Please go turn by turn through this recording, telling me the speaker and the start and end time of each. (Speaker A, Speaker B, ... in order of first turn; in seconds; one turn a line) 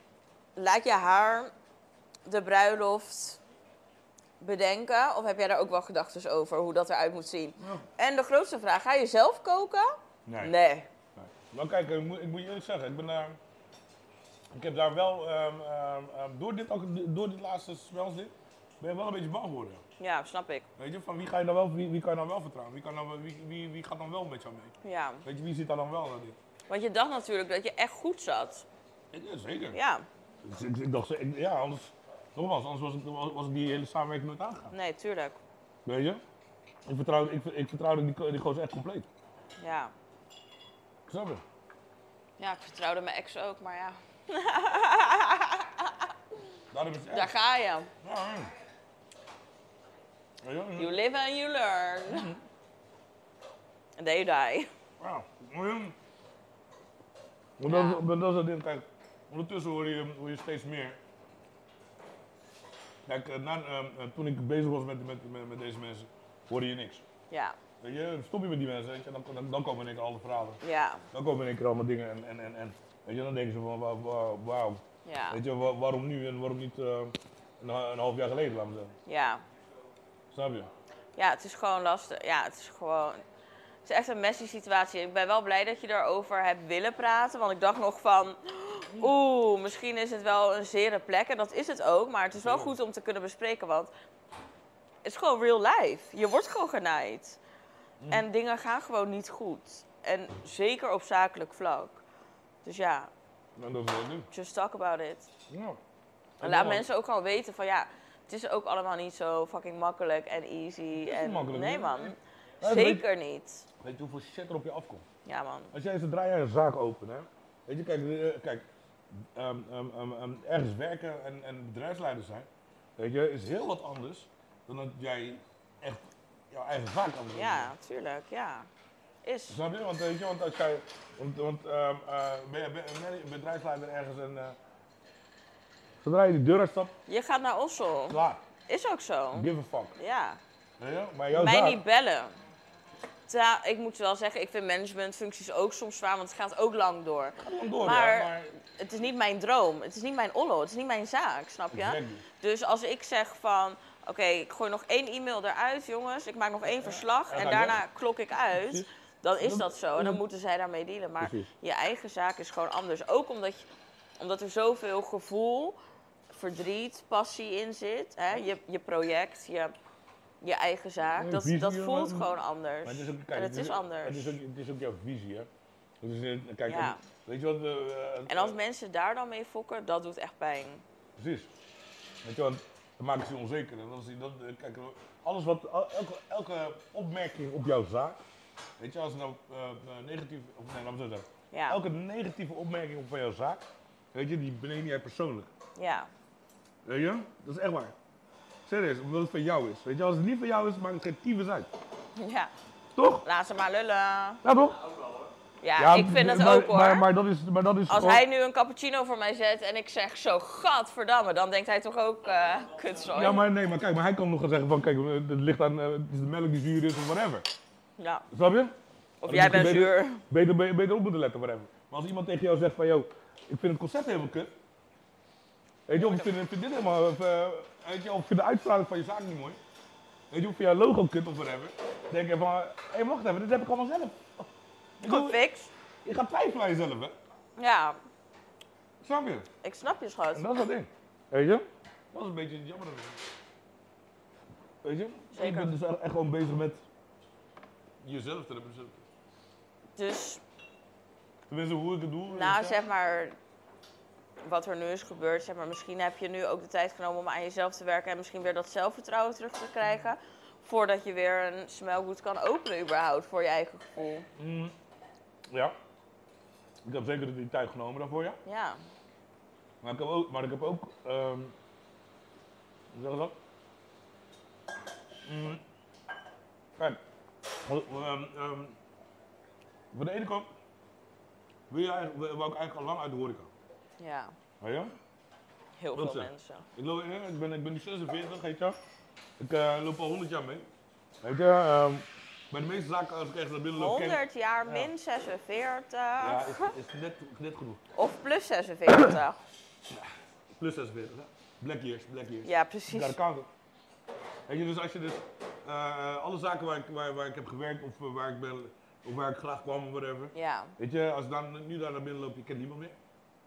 Speaker A: 0.6-1.5
Speaker A: 2.2-3.4
Speaker A: 4.4-10.9
Speaker B: 7.6-7.9
Speaker B: 10.2-10.5
Speaker B: 11.1-13.4
Speaker B: 14.5-19.8
Speaker A: 20.0-20.7
Speaker B: 20.8-24.7
Speaker A: 24.8-25.2
Speaker B: 25.2-26.4
Speaker A: 26.7-28.6
Speaker B: 29.1-29.8
Speaker A: 29.7-30.1
Speaker B: 30.4-34.7
Speaker A: 34.7-35.4
Speaker B: 35.8-36.2
Speaker B: 36.9-39.1
Speaker A: 39.6-39.9
Speaker B: 41.1-41.4
Speaker A: 42.4-46.1
Speaker B: 46.7-47.3
Speaker A: 47.1-47.9
Speaker B: 48.0-48.5
Speaker B: 50.4-51.0
Speaker A: 50.8-52.3
Speaker B: 52.0-52.4
Speaker A: 54.0-54.7
Speaker B: 55.0-55.9
Speaker B: 57.6-61.0
Speaker A: 57.6-58.0
Speaker B: 63.0-67.0
Speaker A: 67.3-67.6
Speaker B: 67.8-70.6
Speaker A: 70.6-71.0
Speaker B: 71.1-78.9
Speaker A: 75.0-75.4
Speaker A: 79.0-79.4
Speaker B: 80.3-80.7
Speaker A: 81.2-83.2
Speaker A: 83.8-93.9
Speaker B: 92.3-92.7
Speaker A: 95.0-97.4
Speaker B: 98.0-98.2
Speaker A: 98.1-102.0
Speaker A: 102.6-103.1
Speaker B: 103.5-104.3
Speaker A: 104.3-105.3
Speaker B: 105.5-105.8
Speaker B: 106.4-106.9
Speaker A: 106.4-113.7
Speaker B: 111.0-113.1
Speaker B: 113.8-115.0
Speaker A: 115.2-115.7
Speaker B: 115.7-118.7
Speaker B: 119.2-127.7
Speaker A: 127.3-128.7
Speaker A: 129.2-129.6
Speaker B: 129.5-134.6
Speaker B: 136.0-136.9
Speaker A: 137.1-140.4
Speaker B: 138.1-138.4
Speaker B: 139.3-139.9
Speaker B: 140.8-141.8
Speaker A: 141.3-142.3
Speaker A: 143.3-165.8
Speaker B: 147.4-148.5
Speaker B: 151.7-152.2
Speaker B: 156.7-157.8
Speaker B: 158.5-158.9
Speaker B: 159.4-160.2
Speaker B: 161.2-161.5
Speaker A: 166.3-169.7
Speaker A: 170.4-174.3
Speaker B: 171.2-172.3
Speaker B: 172.8-175.5
Speaker B: 176.0-178.6
Speaker A: 176.7-177.0
Speaker A: 178.3-180.8
Speaker B: 181.2-181.5
Speaker B: 182.2-188.2
Speaker B: 188.8-195.5
Speaker A: 191.5-191.8
Speaker A: 195.8-196.1
Speaker B: 196.8-197.9
Speaker B: 198.7-201.7
Speaker A: 202.1-202.5
Speaker B: 202.9-203.2
Speaker A: 203.2-204.4
Speaker B: 204.4-204.8
Speaker A: 205.6-207.1
Speaker B: 205.8-208.2
Speaker A: 207.9-213.4
Speaker B: 213.0-217.4
Speaker A: 218.0-218.2
Speaker B: 218.3-218.7
Speaker A: 219.2-220.2
Speaker B: 219.2-224.5
Speaker B: 225.9-229.6
Speaker B: 230.3-235.4
Speaker A: 235.0-235.7
Speaker B: 236.0-237.2
Speaker A: 237.6-238.0
Speaker B: 239.0-239.5
Speaker A: 239.6-240.5
Speaker B: 240.3-243.2
Speaker B: 244.8-246.8
Speaker A: 245.3-245.7
Speaker B: 248.0-249.0
Speaker A: 249.9-250.4
Speaker B: 251.5-252.8
Speaker A: 252.3-253.4
Speaker A: 254.4-264.3
Speaker B: 264.4-264.7
Speaker B: 265.5-265.8
Speaker B: 266.8-268.4
Speaker A: 268.4-268.8
Speaker B: 269.8-271.5
Speaker B: 272.9-273.4
Speaker B: 275.2-275.6
Speaker B: 276.8-277.0
Speaker B: 277.6-278.8
Speaker B: 279.9-280.5
Speaker B: 281.7-283.5
Speaker A: 284.0-284.3
Speaker B: 284.6-284.9
Speaker A: 285.8-286.6
Speaker B: 285.9-288.8
Speaker B: 289.4-290.7
Speaker B: 291.2-294.9
Speaker A: 293.7-296.7
Speaker B: 296.2-297.8
Speaker A: 297.9-299.4
Speaker B: 299.9-303.5
Speaker A: 302.4-303.2
Speaker B: 304.5-312.9
Speaker A: 310.3-310.8